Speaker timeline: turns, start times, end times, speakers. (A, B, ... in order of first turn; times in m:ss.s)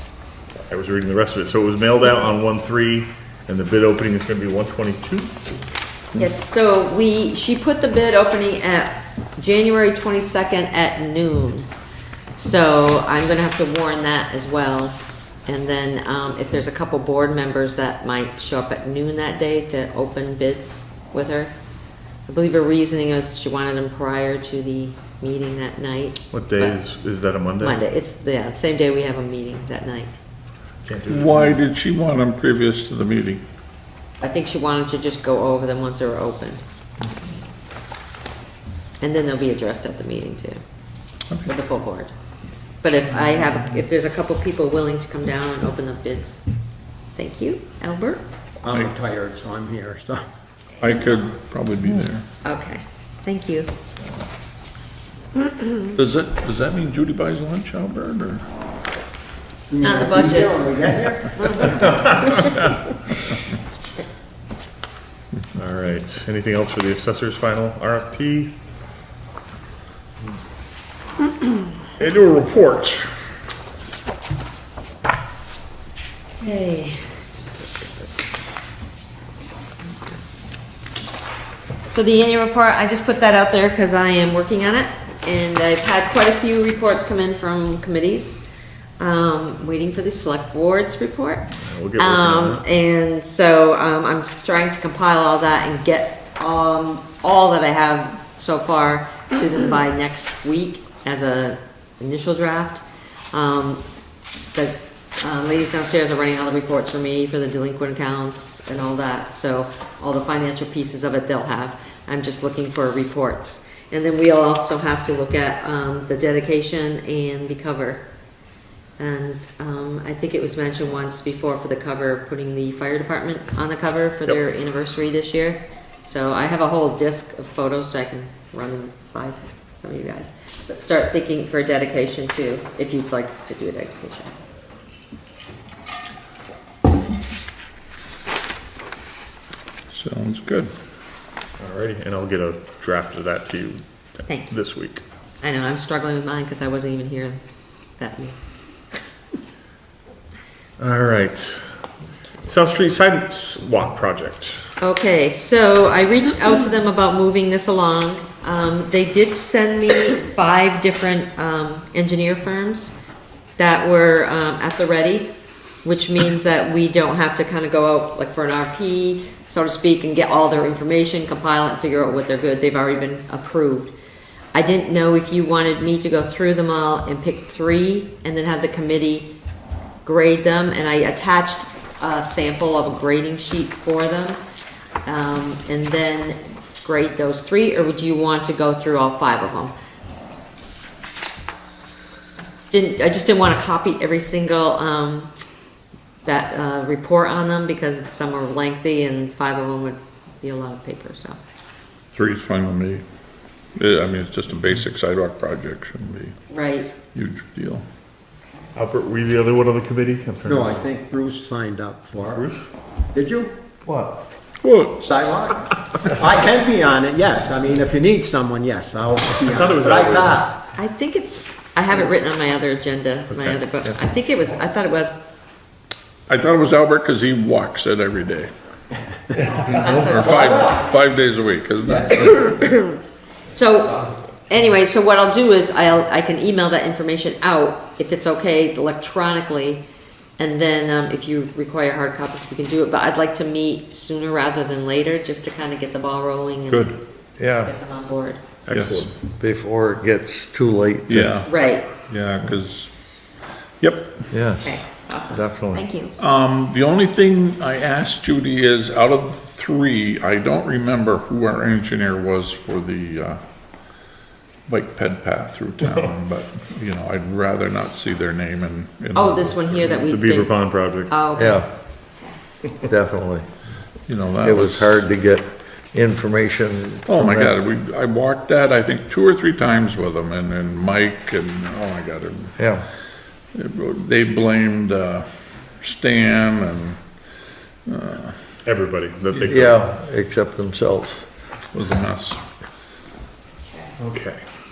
0:00.7-0:05.4 A
0:06.2-0:11.7 B
0:12.4-0:21.5 B
0:22.3-0:26.7 B
0:26.3-0:27.8 A
0:27.6-0:30.1 B
0:30.8-0:31.6 A
0:31.1-0:33.4 C
0:34.2-0:36.6 B
0:39.0-0:40.6 B
0:41.4-0:42.1 B
0:42.8-0:46.4 B
0:47.2-0:48.2 B
0:48.6-0:50.2 D
0:50.8-0:52.2 C
0:52.4-0:53.7 B
0:55.9-0:58.4 C
0:59.7-1:02.1 D
0:59.8-1:00.7 B
1:01.4-1:02.6 B
1:05.5-1:08.5 A
1:12.0-1:13.1 A
1:16.4-1:18.3 B
1:21.9-1:28.4 B
1:29.0-1:43.8 B
1:31.6-1:32.6 A
1:44.5-1:58.0 B
1:59.0-2:14.3 B
2:19.9-2:20.7 C
2:21.6-2:23.8 A
2:24.3-2:24.5 B
2:24.5-2:25.0 A
2:25.4-2:27.4 B
2:28.0-2:28.3 B
2:30.8-2:31.7 A
2:32.4-2:34.6 A
2:34.8-2:43.0 B
2:43.6-2:45.3 B
2:45.8-2:53.9 B
2:54.5-2:59.3 B
3:00.0-3:04.4 B
3:05.0-3:09.7 B
3:12.7-3:15.3 B
3:16.2-3:21.4 B
3:22.1-3:23.0 C
3:23.8-3:26.3 C
3:26.5-3:26.9 B
3:27.1-3:27.8 C
3:28.7-3:30.9 A
3:30.4-3:32.4 D
3:32.3-3:32.6 A
3:33.1-3:33.5 D
3:33.8-3:34.2 E
3:34.6-3:35.0 C
3:35.0-3:40.6 D
3:39.3-3:40.4 A
3:40.8-3:45.1 B
3:46.3-3:48.5 C
3:49.4-3:52.6 C
3:49.7-3:50.7 B
3:52.5-3:53.0 B
3:53.5-3:59.8 B
4:00.4-4:07.0 B
4:06.7-4:07.0 C
4:07.4-4:07.7 E
4:07.5-4:08.4 B
4:08.6-4:09.1 A
4:08.7-4:09.0 C
4:09.4-4:11.4 E
4:11.1-4:12.9 C
4:11.4-4:11.9 B
4:13.8-4:14.3 C
4:14.3-4:15.9 E
4:14.6-4:16.1 B
4:16.2-4:24.0 C
4:24.7-4:29.6 C
4:29.1-4:31.6 B
4:29.9-4:31.2 A
4:31.3-4:31.7 E
4:32.8-4:33.4 E
4:34.1-4:34.9 C
4:34.4-4:37.5 E
4:37.0-4:42.6 C
4:42.6-4:42.8 E
4:43.5-4:47.0 C
4:47.9-4:48.6 C
4:48.6-4:49.8 A
4:49.5-4:51.3 E
4:51.7-4:52.4 C
4:54.0-4:54.4 A